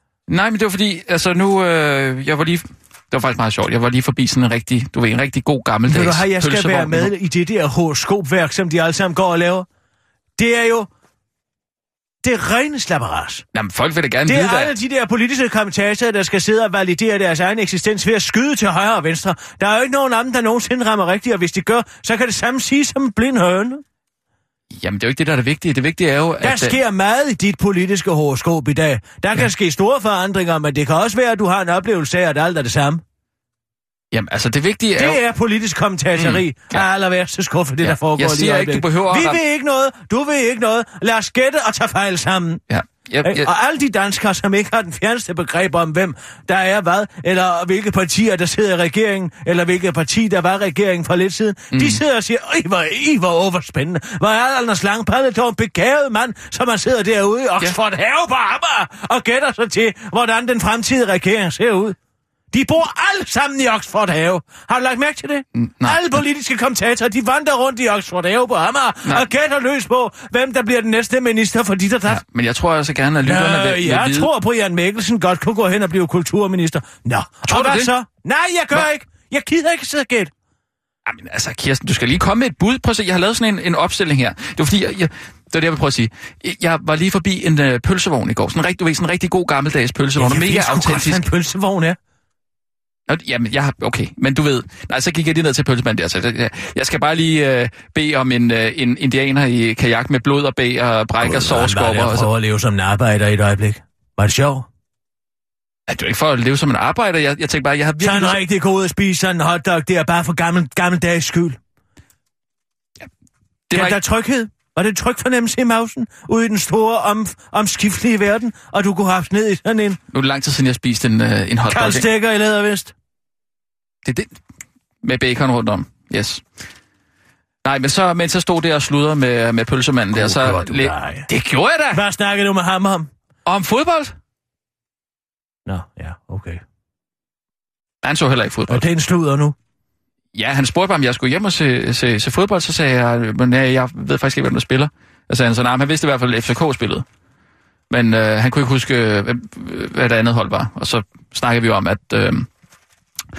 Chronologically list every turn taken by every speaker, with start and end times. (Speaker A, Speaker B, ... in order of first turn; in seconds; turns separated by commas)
Speaker A: 0.3-7.1, Speaker B: 5.8-9.7, Speaker B: 10.4-10.9, Speaker B: 12.2-13.4, Speaker A: 13.5-14.7, Speaker B: 14.2-23.8, Speaker A: 24.7-26.8, Speaker B: 26.4-33.0, Speaker A: 34.1-35.2, Speaker B: 35.0-42.6, Speaker A: 36.2-36.8, Speaker A: 37.8-39.4, Speaker A: 42.7-43.5, Speaker B: 43.2-62.0, Speaker A: 51.7-52.0, Speaker B: 62.5-72.2, Speaker A: 65.5-66.2, Speaker A: 72.1-74.3, Speaker B: 73.2-80.3, Speaker A: 77.4-77.9, Speaker A: 81.0-91.2, Speaker B: 90.2-92.0, Speaker A: 93.1-102.3, Speaker B: 101.2-104.7, Speaker A: 105.9-108.4, Speaker B: 108.0-111.6, Speaker A: 113.7-114.0, Speaker B: 113.7-120.0, Speaker A: 120.1-122.0, Speaker B: 121.7-122.9, Speaker A: 124.0-124.3, Speaker A: 125.0-126.4, Speaker A: 127.6-132.0, Speaker B: 130.1-131.3, Speaker B: 131.9-133.1, Speaker A: 133.4-134.1, Speaker B: 135.7-136.6, Speaker A: 138.0-138.8, Speaker B: 138.7-139.6, Speaker A: 140.3-147.0, Speaker A: 147.9-152.5